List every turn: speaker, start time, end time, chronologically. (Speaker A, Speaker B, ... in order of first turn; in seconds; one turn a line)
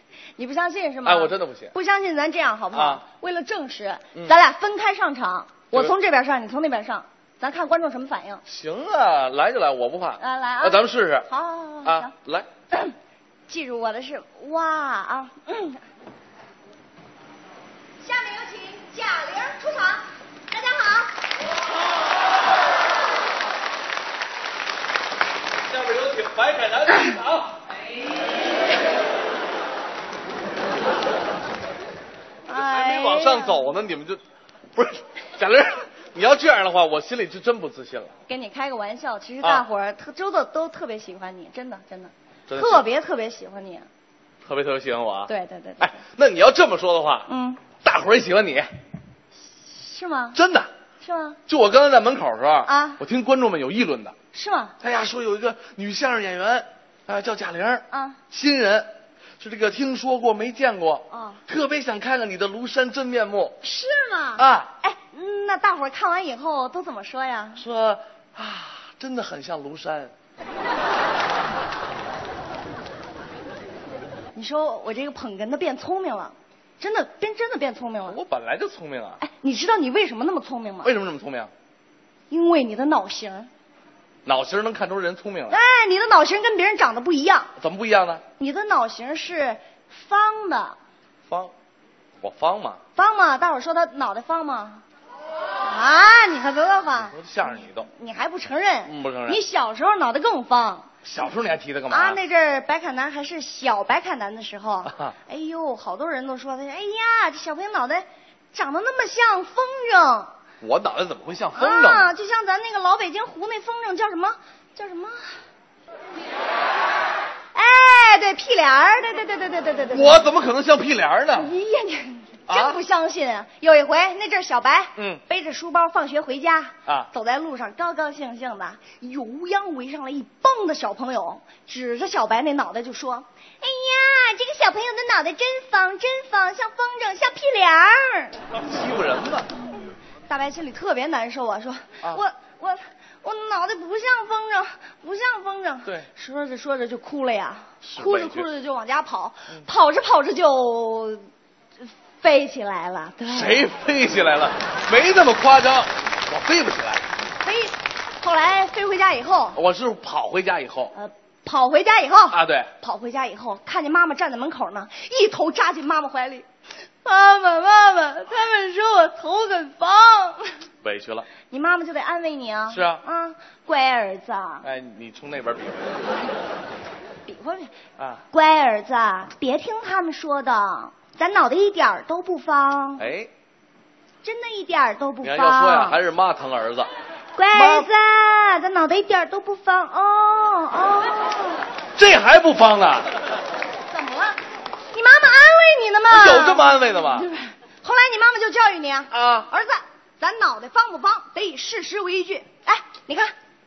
Speaker A: 0.4-8.4
Speaker B: 1.0-1.7
Speaker B: 2.7-3.0
Speaker B: 8.4-11.3
Speaker A: 10.2-12.1
Speaker B: 11.8-12.5
Speaker A: 13.5-15.8
Speaker A: 18.0-21.2
Speaker B: 25.7-27.4
Speaker A: 32.5-33.8
Speaker B: 32.5-34.2
Speaker B: 34.8-38.1
Speaker A: 38.3-43.9
Speaker B: 42.5-42.9
Speaker B: 44.4-47.3
Speaker A: 45.3-46.0
Speaker A: 47.3-47.6
Speaker B: 47.8-48.7
Speaker A: 49.5-50.4
Speaker B: 50.3-50.7
Speaker A: 51.0-51.4
Speaker B: 51.5-54.1
Speaker A: 52.6-53.0
Speaker A: 54.3-54.8
Speaker B: 54.8-58.9
Speaker A: 57.9-58.2
Speaker B: 59.4-63.6
Speaker A: 61.1-61.4
Speaker A: 63.6-67.6
Speaker B: 64.4-64.7
Speaker B: 67.6-70.1
Speaker A: 74.3-78.2
Speaker B: 78.1-79.2
Speaker A: 79.2-80.9
Speaker B: 80.8-81.5
Speaker A: 82.3-83.5
Speaker B: 84.2-85.6
Speaker A: 85.5-87.5
Speaker B: 87.6-88.2
Speaker A: 88.4-90.8
Speaker B: 91.2-91.5
Speaker B: 92.2-92.8
Speaker A: 93.0-94.8
Speaker A: 95.6-97.2
Speaker B: 97.0-97.9
Speaker A: 97.7-100.9
Speaker B: 98.8-99.4
Speaker B: 101.0-102.2
Speaker A: 101.9-110.3
Speaker B: 110.6-112.1
Speaker A: 111.5-115.2
Speaker A: 117.5-120.3
Speaker B: 119.9-121.5
Speaker A: 121.3-138.4
Speaker B: 122.5-122.8
Speaker B: 138.6-139.5
Speaker A: 140.3-151.3
Speaker B: 147.8-148.5
Speaker A: 152.2-153.7
Speaker B: 153.2-157.0
Speaker A: 157.4-159.6
Speaker B: 159.5-160.9
Speaker A: 160.9-166.4
Speaker B: 162.3-162.7
Speaker A: 167.0-170.6
Speaker B: 170.8-171.3
Speaker A: 171.5-174.7
Speaker B: 172.7-173.0
Speaker B: 174.6-176.0
Speaker A: 177.3-177.7
Speaker B: 178.0-178.2
Speaker A: 178.3-183.1
Speaker B: 183.0-183.3
Speaker A: 184.2-186.0
Speaker B: 185.2-186.9
Speaker A: 187.3-191.6
Speaker B: 187.5-187.9
Speaker B: 191.9-193.1
Speaker A: 193.9-194.4
Speaker A: 194.9-203.3
Speaker B: 196.1-197.3
Speaker B: 199.1-199.5